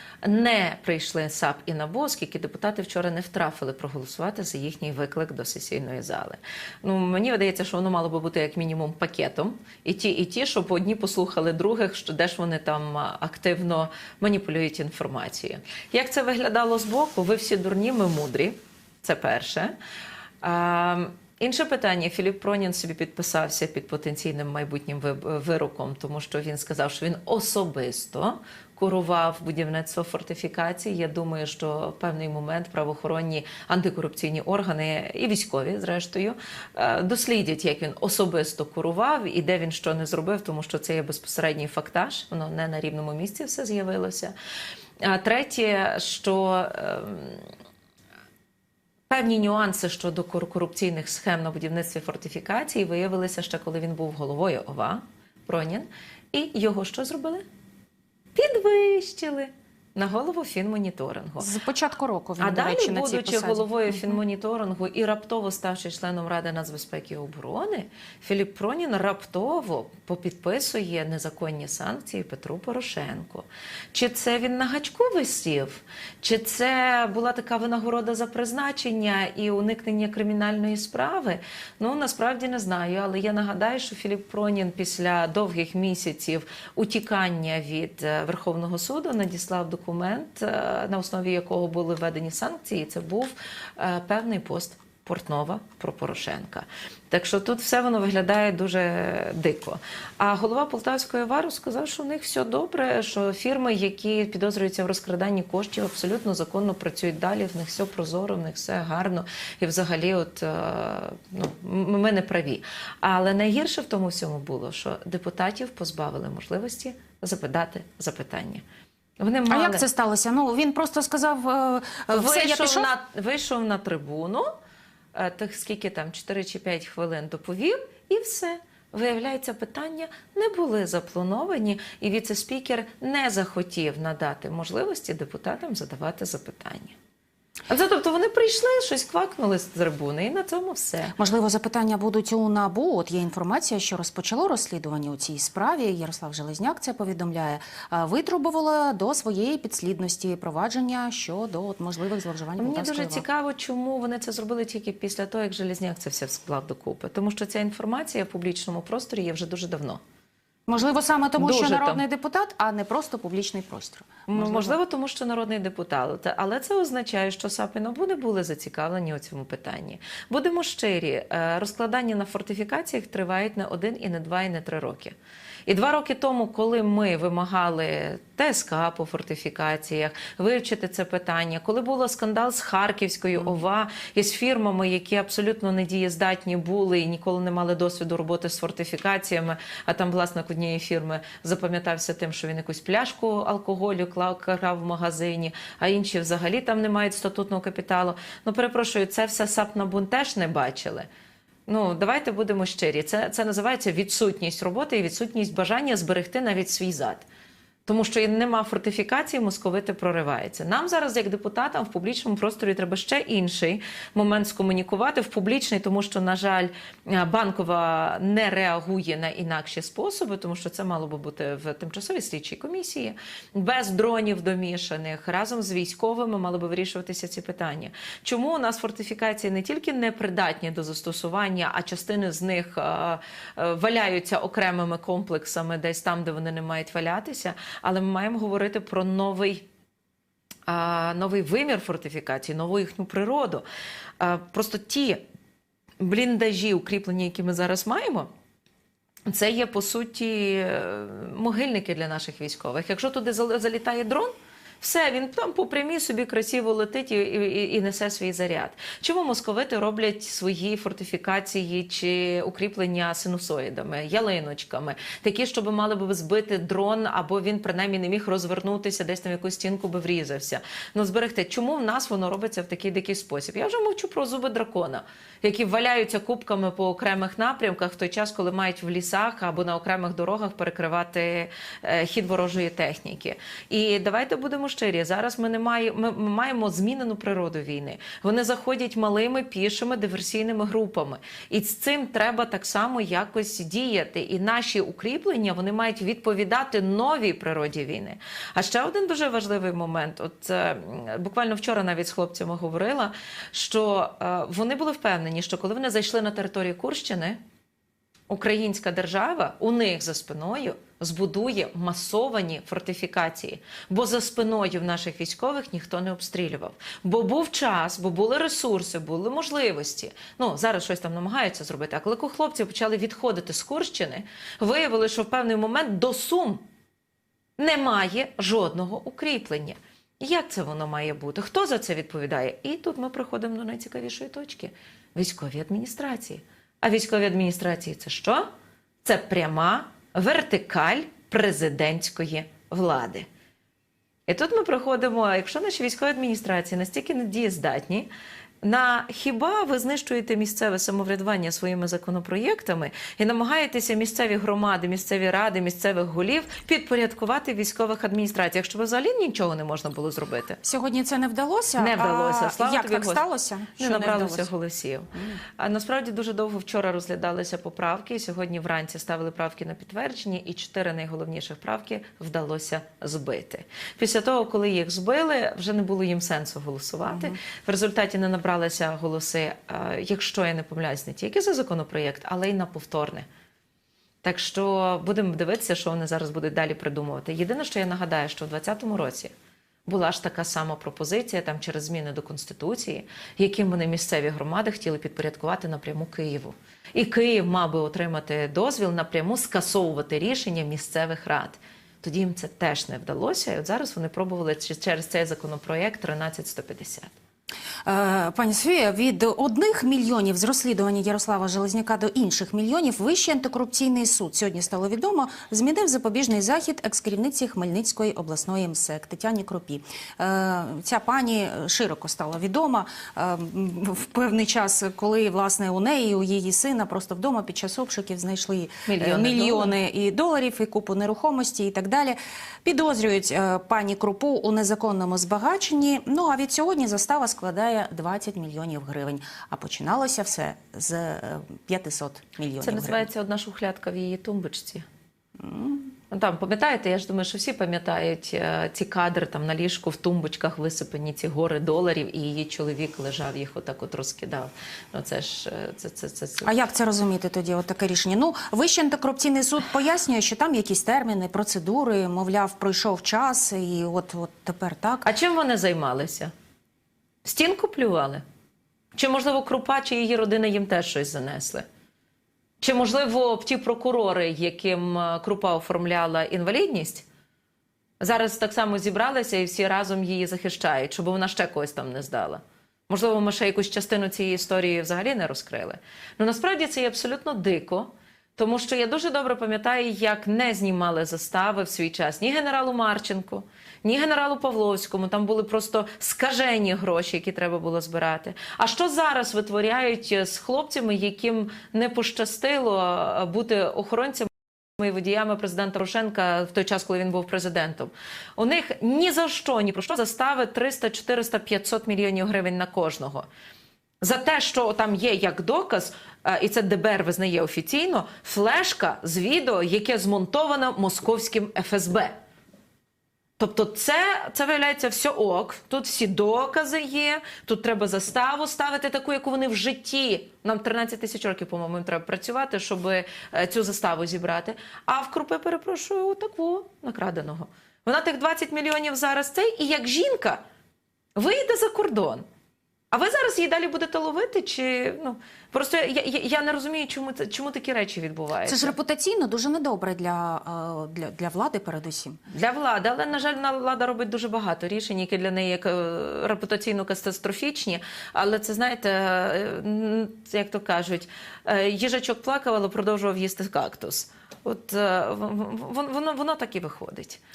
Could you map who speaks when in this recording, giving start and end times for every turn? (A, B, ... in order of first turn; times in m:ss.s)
0:00.2-0:19.7 A
0:20.4-0:44.3 A
0:45.0-0:47.5 A
0:49.1-0:57.4 A
0:58.4-1:01.5 A
1:01.4-1:04.1 B
1:02.4-1:58.6 A
1:59.2-1:59.9 A
1:59.5-2:02.9 B
2:02.1-2:04.5 A
2:05.1-2:17.0 A
2:17.7-2:21.1 A
2:21.2-2:33.2 B
2:32.6-2:40.0 A
2:40.7-2:44.8 B
2:41.4-2:42.0 A
2:44.3-2:55.2 A
2:55.7-3:21.1 A
3:21.7-3:27.2 A
3:27.9-3:59.6 A
4:00.7-4:03.6 A
4:04.2-4:05.2 A
4:06.0-4:08.3 A
4:09.3-5:07.4 A
5:08.3-5:26.6 A
5:27.6-5:38.5 A
5:39.0-5:43.3 A
5:44.3-5:48.1 A
5:48.6-6:00.6 A
6:00.6-6:04.5 B
6:01.8-6:03.2 A
6:03.8-6:23.3 A
6:05.1-6:05.4 B
6:17.1-6:17.4 B
6:24.2-6:29.3 A
6:29.9-6:47.1 A
6:47.8-7:23.1 B
7:08.9-7:09.7 A
7:22.6-7:24.9 A
7:25.4-7:25.9 B
7:26.1-7:36.5 A
7:36.4-7:45.1 B
7:45.0-7:46.3 A
7:47.2-7:48.2 A
7:49.0-7:51.7 A
7:52.6-7:57.1 A
7:58.0-8:33.3 A
8:34.0-8:42.1 A
8:43.4-9:00.4 A
9:01.2-9:02.2 A
9:02.9-9:08.7 A
9:08.4-9:12.2 B
9:12.3-9:27.2 A